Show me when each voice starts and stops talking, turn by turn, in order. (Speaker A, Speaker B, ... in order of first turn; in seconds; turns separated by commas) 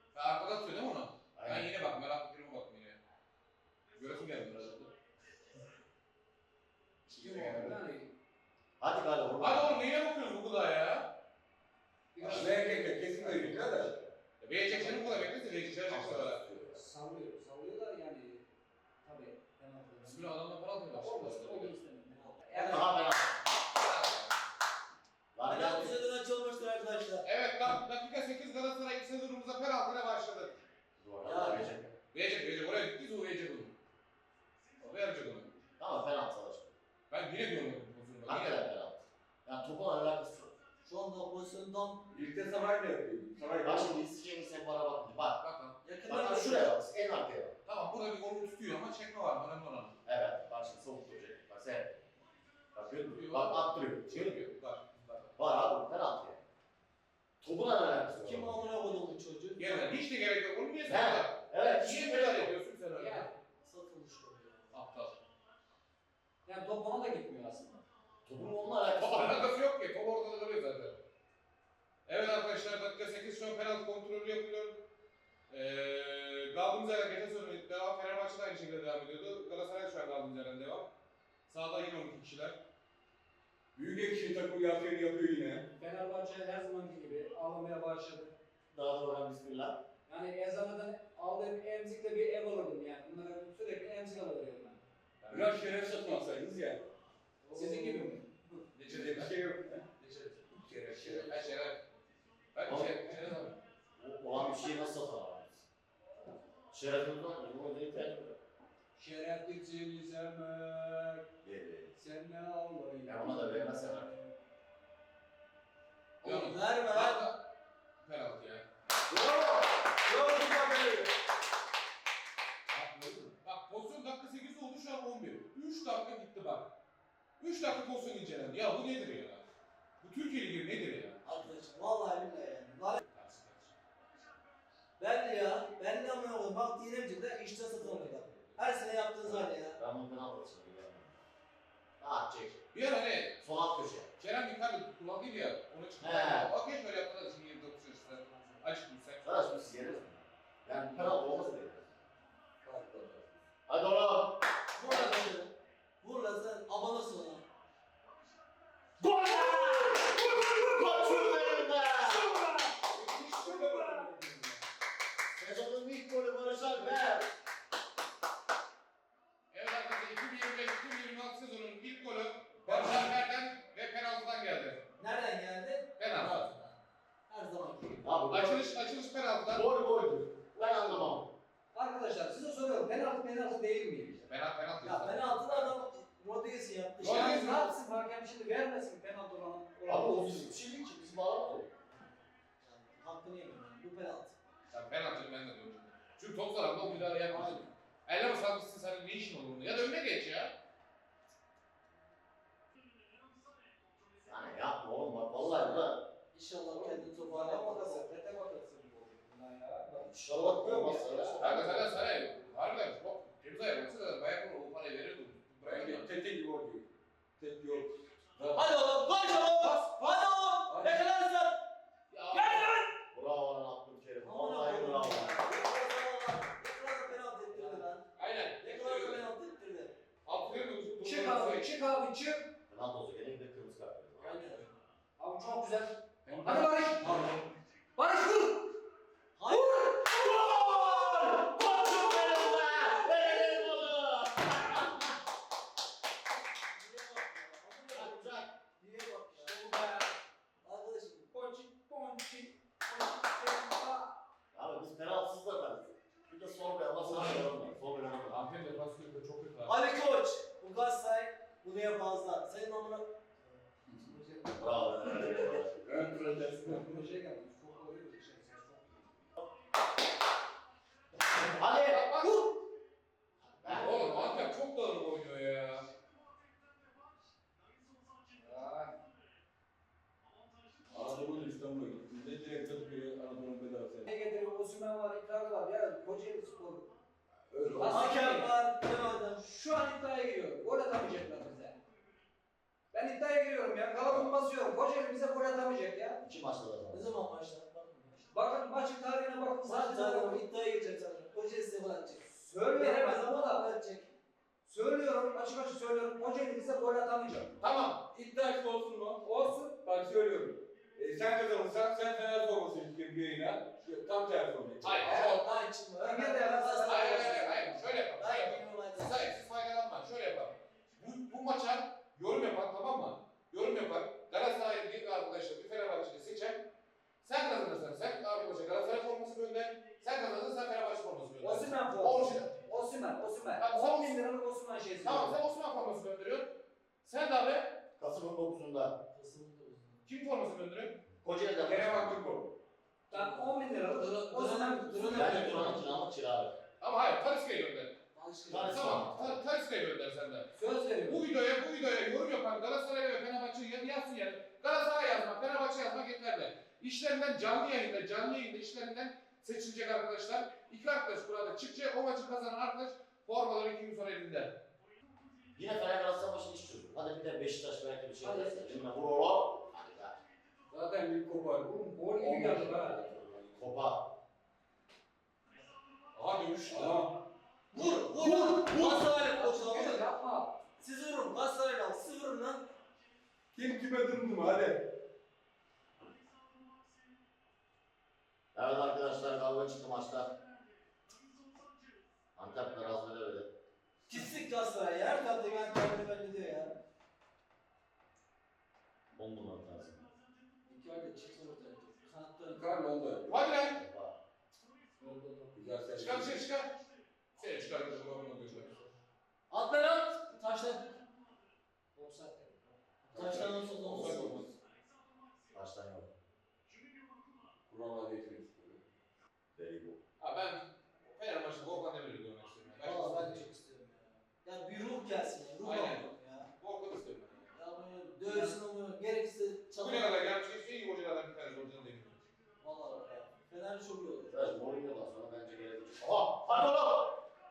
Speaker A: 0.1-3.0, Speaker B: 1.4-1.7, Speaker A: 3.9-4.9, Speaker C: 7.1-8.1, Speaker D: 7.1-7.8, Speaker B: 8.8-9.8, Speaker A: 9.4-11.1, Speaker C: 12.1-13.9, Speaker D: 12.2-13.9, Speaker A: 14.4-16.4, Speaker D: 15.9-16.8, Speaker C: 16.7-18.5, Speaker C: 19.0-20.3, Speaker A: 20.0-21.7, Speaker C: 20.9-23.1, Speaker E: 22.1-23.2, Speaker B: 22.7-23.3, Speaker A: 23.7-24.3, Speaker B: 25.3-26.0, Speaker E: 25.4-27.2, Speaker A: 27.2-30.6, Speaker B: 31.0-31.9, Speaker E: 31.2-31.7, Speaker A: 32.1-33.8, Speaker A: 34.8-35.5, Speaker B: 35.8-36.7, Speaker A: 37.1-38.6, Speaker B: 38.3-40.5, Speaker E: 40.8-42.1, Speaker D: 42.1-44.0, Speaker B: 43.6-45.4, Speaker A: 45.4-45.8, Speaker E: 45.8-46.7, Speaker B: 46.1-47.5, Speaker A: 47.6-50.0, Speaker B: 50.0-52.0, Speaker B: 52.8-54.4, Speaker A: 53.1-55.3, Speaker B: 55.4-56.4, Speaker B: 57.4-58.6, Speaker E: 58.2-60.0, Speaker A: 59.6-63.3, Speaker B: 60.9-62.5, Speaker C: 62.9-63.3, Speaker E: 63.6-64.8, Speaker A: 64.7-65.2, Speaker C: 66.5-67.8, Speaker B: 68.2-69.5, Speaker A: 69.0-71.0, Speaker A: 72.1-74.8, Speaker A: 75.5-80.9, Speaker A: 81.5-82.6, Speaker D: 83.8-85.7, Speaker C: 85.8-88.3, Speaker B: 88.7-89.8, Speaker C: 90.1-94.8, Speaker A: 95.2-95.6, Speaker D: 95.3-96.9, Speaker C: 97.4-98.6, Speaker D: 97.5-98.2, Speaker A: 98.7-99.3, Speaker D: 98.9-99.9, Speaker A: 100.0-101.8, Speaker D: 100.7-101.5, Speaker C: 100.9-101.2, Speaker A: 102.5-103.6, Speaker B: 102.7-103.0, Speaker B: 104.0-105.7, Speaker B: 106.7-108.4, Speaker C: 108.9-111.2, Speaker B: 111.4-112.0, Speaker C: 112.0-114.3, Speaker B: 113.0-114.1, Speaker E: 116.2-117.3, Speaker A: 116.2-117.4, Speaker A: 118.0-118.7, Speaker E: 120.1-121.0, Speaker C: 122.7-123.4, Speaker A: 123.4-126.7, Speaker A: 127.4-129.4, Speaker A: 130.0-131.2, Speaker E: 131.2-133.0, Speaker A: 133.0-133.7, Speaker E: 135.0-139.8, Speaker C: 137.8-138.6, Speaker B: 139.2-141.2, Speaker B: 142.0-142.6, Speaker A: 142.7-143.4, Speaker B: 143.4-144.1, Speaker A: 144.2-149.9, Speaker B: 146.0-146.5, Speaker C: 148.1-148.7, Speaker B: 149.2-152.0, Speaker D: 152.6-153.4, Speaker B: 153.7-154.4, Speaker E: 154.8-157.4, Speaker C: 154.9-155.3, Speaker B: 159.0-162.3, Speaker D: 162.9-164.6, Speaker C: 163.3-164.1, Speaker B: 165.3-167.3, Speaker A: 169.5-174.9, Speaker D: 172.7-172.9, Speaker E: 175.0-176.8, Speaker A: 176.0-176.5, Speaker E: 177.3-178.2, Speaker B: 178.0-178.7, Speaker A: 178.3-179.7, Speaker B: 179.5-181.3, Speaker A: 180.7-181.2, Speaker C: 181.7-184.3, Speaker A: 184.2-185.7, Speaker E: 184.8-187.8, Speaker A: 187.0-187.6, Speaker C: 187.0-190.6, Speaker B: 189.9-191.7, Speaker E: 192.6-194.3, Speaker A: 194.7-200.6, Speaker E: 197.3-197.6, Speaker B: 204.2-206.1, Speaker E: 206.3-208.1, Speaker C: 206.7-211.9, Speaker B: 209.9-211.8, Speaker A: 211.4-216.1, Speaker D: 215.6-216.9, Speaker D: 217.4-219.0, Speaker E: 218.5-221.6, Speaker A: 219.6-220.2, Speaker D: 220.7-221.1, Speaker A: 222.1-222.8, Speaker C: 222.3-222.9, Speaker B: 223.1-225.4, Speaker E: 224.2-230.0, Speaker C: 227.5-227.9, Speaker A: 228.2-229.3, Speaker A: 230.2-231.7, Speaker C: 231.0-232.5, Speaker B: 232.7-234.5, Speaker E: 234.2-234.7, Speaker C: 235.2-237.1, Speaker D: 236.2-237.4, Speaker C: 238.0-238.7, Speaker E: 239.4-240.2, Speaker C: 239.5-240.0, Speaker B: 240.3-245.1, Speaker E: 246.7-249.6, Speaker B: 247.9-248.5, Speaker C: 249.4-250.1, Speaker E: 250.6-251.3, Speaker C: 251.3-254.1, Speaker B: 254.5-258.4, Speaker A: 258.3-259.8, Speaker E: 259.6-263.1, Speaker C: 264.1-264.8, Speaker B: 264.5-265.8, Speaker D: 265.8-266.8, Speaker C: 265.9-269.3, Speaker B: 271.5-272.1, Speaker A: 271.8-272.5, Speaker B: 273.4-274.1, Speaker A: 273.7-275.9, Speaker C: 273.7-274.5, Speaker C: 278.3-278.9, Speaker D: 280.9-284.1, Speaker C: 284.1-286.9, Speaker D: 287.5-288.2, Speaker C: 287.8-288.6, Speaker E: 287.9-289.4, Speaker C: 289.4-291.8, Speaker C: 292.9-296.2, Speaker D: 294.1-294.3, Speaker B: 296.2-297.0, Speaker E: 296.9-298.2, Speaker C: 298.3-300.4, Speaker E: 299.6-304.1, Speaker C: 302.3-303.7, Speaker C: 304.6-307.6, Speaker A: 307.6-308.0, Speaker D: 308.1-309.2, Speaker C: 309.2-309.8, Speaker D: 309.8-315.2, Speaker A: 314.8-315.5, Speaker E: 315.0-319.4, Speaker C: 316.0-317.9, Speaker A: 316.9-326.6, Speaker A: 327.2-332.8, Speaker C: 331.4-335.4, Speaker A: 333.6-334.2, Speaker A: 335.0-336.5, Speaker A: 337.0-337.8, Speaker B: 338.0-338.9, Speaker E: 339.1-340.0, Speaker A: 340.1-341.0, Speaker B: 341.2-342.2, Speaker D: 341.6-342.5, Speaker C: 343.1-345.6, Speaker E: 343.1-345.9, Speaker B: 345.1-346.5, Speaker A: 346.8-347.9, Speaker E: 348.1-348.8, Speaker B: 348.5-349.4, Speaker A: 348.7-350.5, Speaker C: 350.5-351.2, Speaker A: 351.1-364.6, Speaker B: 365.6-370.2, Speaker C: 368.2-368.8, Speaker D: 370.7-373.7, Speaker C: 371.7-373.0, Speaker B: 373.6-374.1, Speaker A: 376.1-377.1, Speaker D: 376.7-377.1, Speaker A: 377.7-379.1, Speaker C: 377.8-380.6, Speaker E: 378.0-380.1, Speaker E: 380.8-382.6, Speaker D: 383.5-384.9, Speaker B: 388.5-390.3, Speaker B: 392.4-393.5, Speaker E: 394.1-396.8, Speaker B: 399.1-400.1, Speaker E: 400.6-402.7, Speaker D: 402.5-403.4, Speaker A: 403.3-403.8, Speaker B: 403.6-404.2, Speaker C: 405.0-405.9, Speaker D: 405.5-406.5, Speaker A: 406.0-406.8, Speaker A: 407.4-408.8, Speaker E: 409.5-411.0, Speaker C: 411.9-412.8, Speaker D: 413.1-414.2, Speaker E: 413.1-414.4, Speaker A: 413.9-414.6, Speaker B: 415.5-416.1, Speaker D: 417.7-418.8, Speaker B: 419.5-420.0, Speaker A: 420.2-423.5, Speaker E: 422.8-426.5, Speaker A: 425.6-427.6, Speaker E: 427.5-430.3, Speaker C: 428.3-428.6, Speaker A: 429.8-432.2, Speaker E: 432.6-434.5, Speaker B: 434.3-437.2